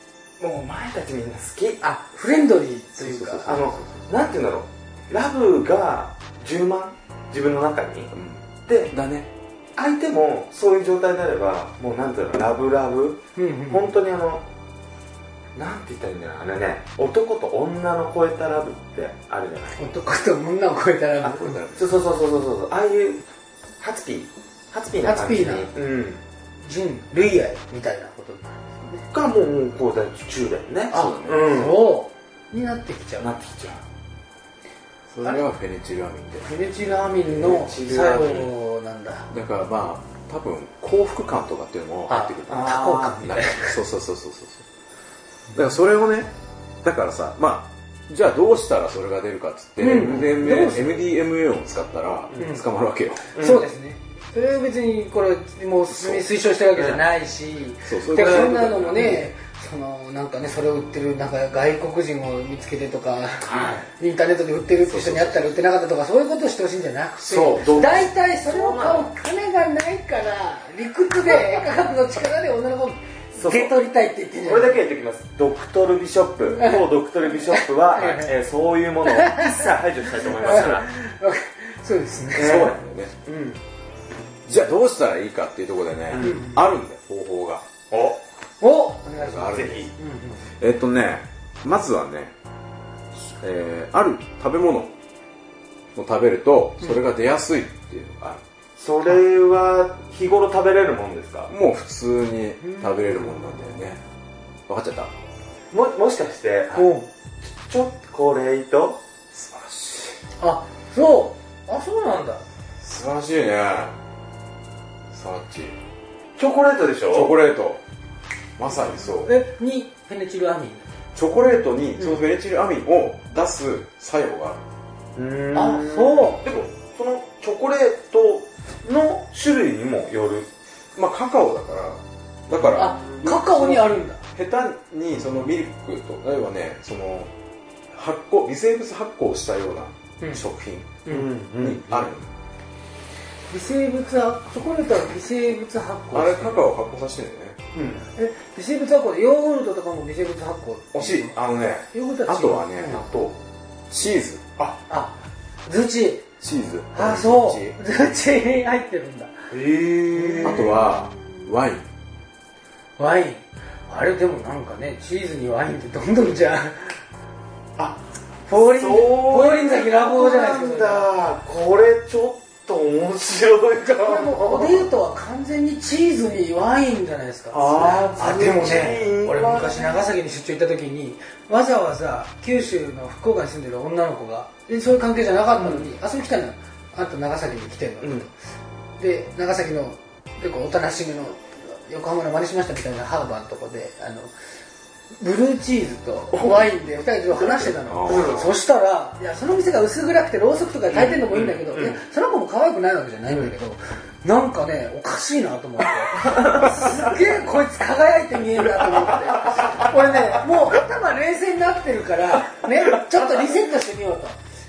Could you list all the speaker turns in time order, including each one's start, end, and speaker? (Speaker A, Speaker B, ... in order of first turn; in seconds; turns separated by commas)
Speaker A: 0.4-1.8, Speaker B: 1.8-3.6, Speaker C: 3.0-4.0, Speaker A: 3.5-8.1, Speaker C: 8.1-9.3, Speaker A: 8.7-8.9, Speaker A: 9.8-14.4, Speaker B: 13.4-13.9, Speaker A: 15.6-19.8, Speaker B: 19.8-21.6, Speaker A: 21.2-23.2, Speaker C: 21.3-21.9, Speaker A: 23.8-26.2, Speaker B: 25.0-25.7, Speaker B: 26.6-29.1, Speaker A: 29.1-31.9, Speaker B: 30.9-33.3, Speaker C: 30.9-31.5, Speaker A: 33.2-33.8, Speaker C: 35.1-36.5, Speaker B: 35.2-35.4, Speaker B: 36.5-39.3, Speaker A: 37.2-38.5, Speaker C: 39.3-44.7, Speaker B: 42.1-43.8, Speaker A: 42.5-43.3, Speaker C: 45.5-53.3, Speaker B: 49.8-51.0, Speaker A: 53.4-53.7, Speaker B: 53.4-74.8, Speaker C: 55.9-56.2, Speaker A: 56.8-57.0, Speaker C: 57.9-59.2, Speaker A: 58.2-59.2, Speaker A: 63.5-63.9, Speaker C: 64.8-65.6, Speaker C: 67.2-68.1, Speaker A: 67.4-69.1, Speaker A: 73.3-73.8, Speaker A: 74.4-80.9, Speaker B: 76.5-76.9, Speaker B: 77.5-78.3, Speaker B: 79.1-79.7, Speaker B: 80.2-82.7, Speaker C: 82.3-83.1, Speaker A: 82.3-83.6, Speaker C: 84.5-87.7, Speaker A: 86.1-86.5, Speaker B: 86.2-86.6, Speaker A: 87.9-88.2, Speaker B: 88.6-90.4, Speaker C: 89.2-89.9, Speaker A: 89.4-89.9, Speaker C: 90.6-92.3, Speaker C: 93.4-94.9, Speaker C: 96.0-98.4, Speaker A: 98.8-101.5, Speaker C: 101.5-104.0, Speaker B: 102.6-103.4, Speaker C: 104.7-105.1, Speaker A: 105.7-109.0, Speaker B: 106.7-107.1, Speaker C: 109.3-110.2, Speaker B: 110.4-112.4, Speaker C: 112.8-114.0, Speaker C: 115.1-115.8, Speaker A: 116.4-117.3, Speaker C: 117.1-117.8, Speaker C: 118.6-119.3, Speaker B: 119.1-120.8, Speaker C: 121.2-124.6, Speaker A: 125.2-130.5, Speaker B: 125.5-126.4, Speaker C: 130.9-137.3, Speaker A: 132.5-133.3, Speaker B: 132.7-134.2, Speaker C: 137.9-141.0, Speaker A: 141.1-142.1, Speaker C: 141.6-142.3, Speaker B: 143.5-146.7, Speaker C: 146.1-147.6, Speaker A: 147.7-148.1, Speaker B: 148.2-151.3, Speaker C: 150.9-153.0, Speaker B: 151.9-153.0, Speaker A: 152.8-153.4, Speaker C: 153.9-154.4, Speaker B: 154.9-156.3, Speaker C: 156.4-157.8, Speaker B: 156.9-159.3, Speaker A: 159.5-160.8, Speaker B: 160.1-161.4, Speaker C: 160.4-161.9, Speaker B: 163.0-167.0, Speaker A: 167.8-174.9, Speaker B: 168.5-171.1, Speaker B: 173.8-188.3, Speaker A: 177.5-180.1, Speaker A: 185.6-185.9, Speaker A: 188.0-188.3, Speaker B: 189.0-194.3, Speaker B: 195.2-214.4, Speaker C: 197.8-198.5, Speaker A: 198.1-198.5, Speaker A: 200.9-202.0, Speaker A: 206.2-206.7